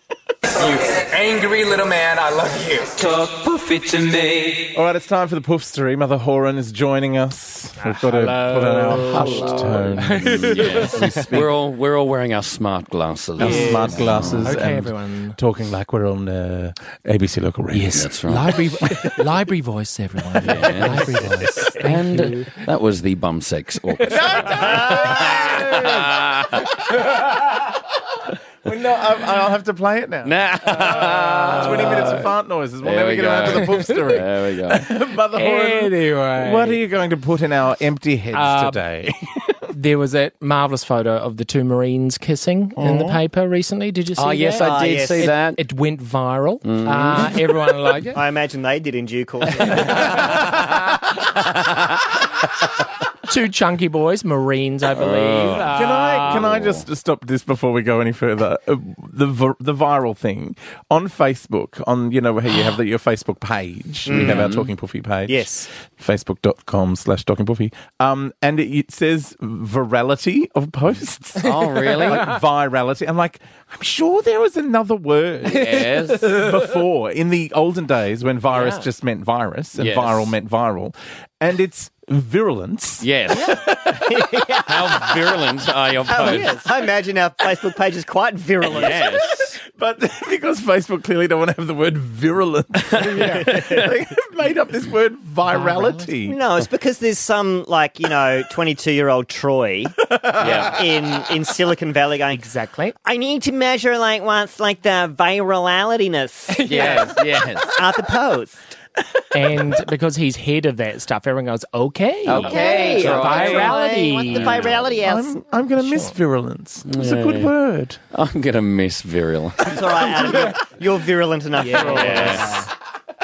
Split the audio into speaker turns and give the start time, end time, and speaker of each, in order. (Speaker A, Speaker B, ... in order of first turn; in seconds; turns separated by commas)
Speaker A: 0.5-4.8, Speaker B: 4.7-11.5, Speaker C: 7.8-11.0, Speaker D: 8.9-14.5, Speaker B: 13.4-18.1, Speaker C: 13.4-15.4, Speaker C: 17.7-22.6, Speaker D: 17.9-18.6, Speaker B: 18.7-19.2, Speaker D: 20.4-26.7, Speaker B: 20.5-21.6, Speaker B: 24.1-26.5, Speaker B: 28.6-39.2, Speaker D: 30.2-32.3, Speaker D: 32.8-34.9, Speaker C: 35.3-36.8, Speaker C: 38.3-38.8, Speaker C: 39.7-48.2, Speaker B: 42.8-43.2, Speaker D: 44.2-45.6, Speaker E: 44.6-45.3, Speaker D: 46.6-47.5, Speaker E: 48.1-50.4, Speaker C: 53.3-56.4, Speaker D: 54.9-56.8, Speaker B: 55.7-84.2, Speaker E: 64.1-64.5, Speaker D: 64.1-64.7, Speaker E: 65.3-65.7, Speaker D: 71.4-72.3, Speaker C: 71.4-72.4, Speaker D: 75.5-76.3, Speaker C: 78.5-78.9, Speaker D: 79.8-80.3, Speaker D: 83.0-83.7, Speaker E: 83.9-85.3, Speaker D: 84.5-86.6, Speaker E: 86.1-89.4, Speaker D: 88.6-89.5, Speaker B: 89.7-96.4, Speaker E: 93.2-93.8, Speaker C: 95.5-96.1, Speaker E: 96.3-102.5, Speaker B: 100.1-100.7, Speaker D: 100.4-100.8, Speaker C: 102.3-103.0, Speaker E: 103.0-106.7, Speaker C: 106.5-107.2, Speaker D: 106.7-107.8, Speaker E: 107.7-108.6, Speaker C: 109.3-114.7, Speaker D: 112.3-115.0, Speaker E: 112.3-115.4, Speaker B: 115.0-118.0, Speaker C: 115.8-116.1, Speaker D: 116.9-117.5, Speaker D: 118.1-120.1, Speaker E: 119.6-122.7, Speaker C: 121.6-122.7, Speaker D: 121.8-122.6